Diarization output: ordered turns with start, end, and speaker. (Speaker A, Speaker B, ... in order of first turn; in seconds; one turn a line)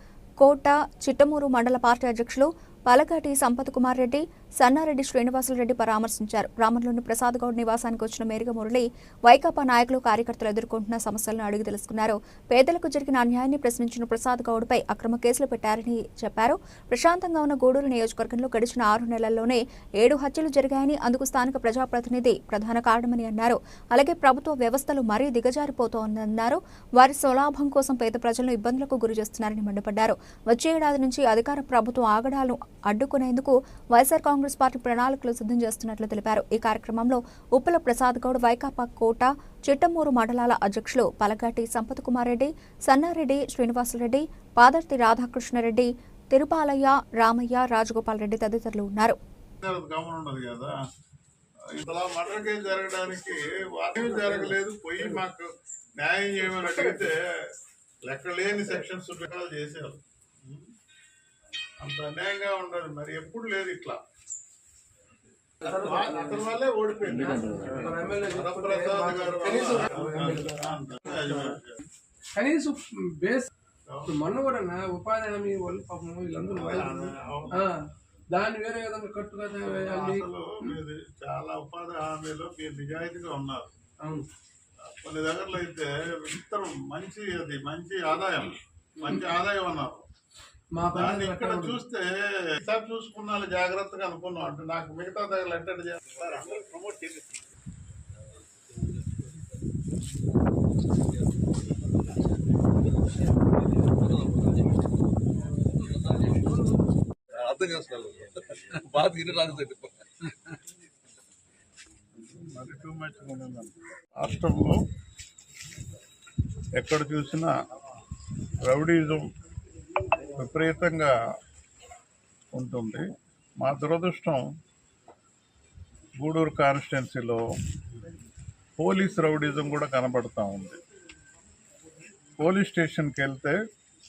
Speaker A: 0.4-49.2
Speaker B: 49.6-50.7
Speaker B: 51.7-55.5
Speaker B: 56.0-57.1
Speaker B: 58.0-60.7
Speaker B: 61.8-64.0
Speaker C: 65.6-66.0
Speaker B: 65.6-71.8
Speaker C: 67.2-71.5
Speaker C: 72.3-73.5
Speaker B: 73.9-74.2
Speaker C: 74.1-80.3
Speaker B: 76.5-77.6
Speaker B: 79.7-83.7
Speaker C: 84.0-84.2
Speaker B: 84.8-90.1
Speaker C: 90.7-91.8
Speaker B: 90.9-96.7
Speaker D: 104.0-104.8
Speaker D: 105.8-106.6
Speaker D: 107.3-110.3
Speaker B: 112.1-114.8
Speaker B: 116.8-117.5
Speaker B: 118.6-119.2
Speaker B: 120.3-121.1
Speaker B: 122.5-123.0
Speaker B: 123.6-124.4
Speaker B: 126.2-127.4
Speaker B: 128.8-130.8
Speaker B: 132.4-133.6